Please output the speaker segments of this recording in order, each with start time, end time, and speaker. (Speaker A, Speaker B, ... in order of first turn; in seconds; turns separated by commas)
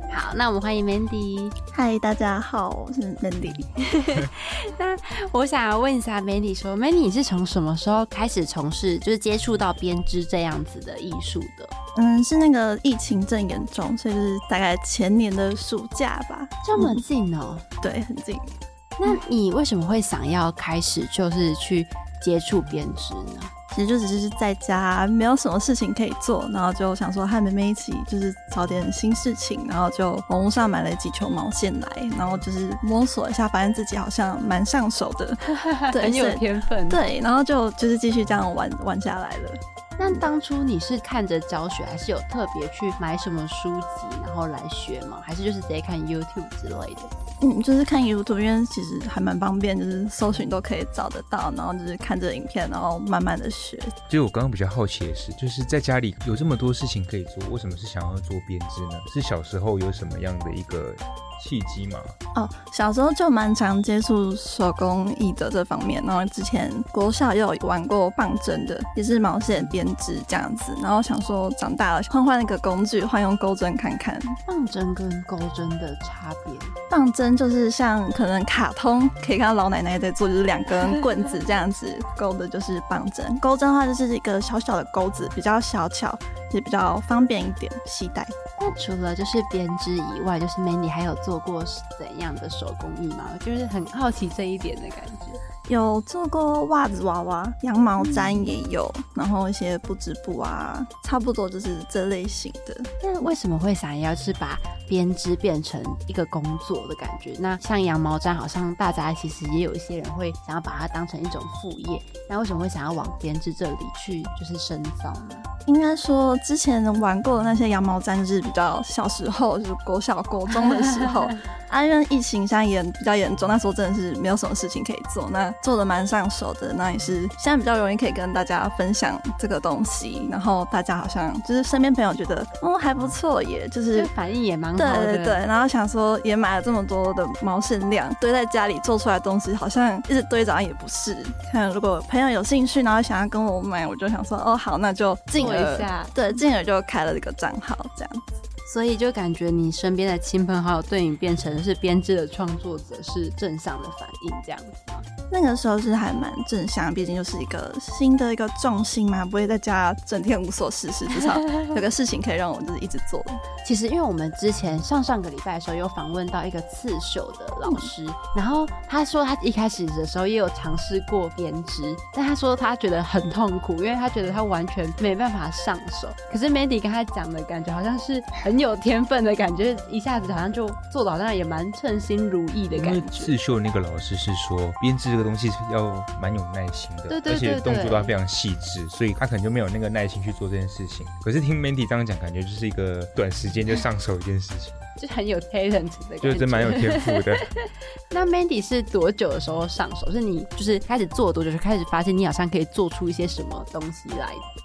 Speaker A: 0.1-1.6, Speaker B: 1.7-3.7, Speaker A: 3.9-11.7, Speaker B: 11.9-17.0, Speaker A: 16.6-17.6, Speaker B: 17.8-18.5, Speaker A: 19.0-23.5, Speaker B: 23.7-40.2, Speaker A: 35.5-37.0, Speaker A: 40.0-47.1, Speaker B: 47.4-53.9, Speaker C: 54.1-62.1, Speaker B: 62.4-74.3, Speaker A: 74.5-76.8, Speaker B: 76.9-88.4, Speaker A: 88.6-95.4, Speaker B: 95.7-102.9, Speaker A: 98.0-98.5, Speaker A: 103.0-115.5, Speaker B: 115.7-134.1, Speaker A: 120.6-121.3, Speaker A: 133.9-135.4, Speaker B: 134.8-148.4, Speaker A: 145.4-146.2, Speaker A: 148.7-155.1, Speaker B: 155.3-163.4, Speaker A: 163.6-183.3, Speaker C: 182.8-194.8, Speaker A: 187.1-188.1, Speaker A: 195.0-204.4, Speaker C: 196.2-197.4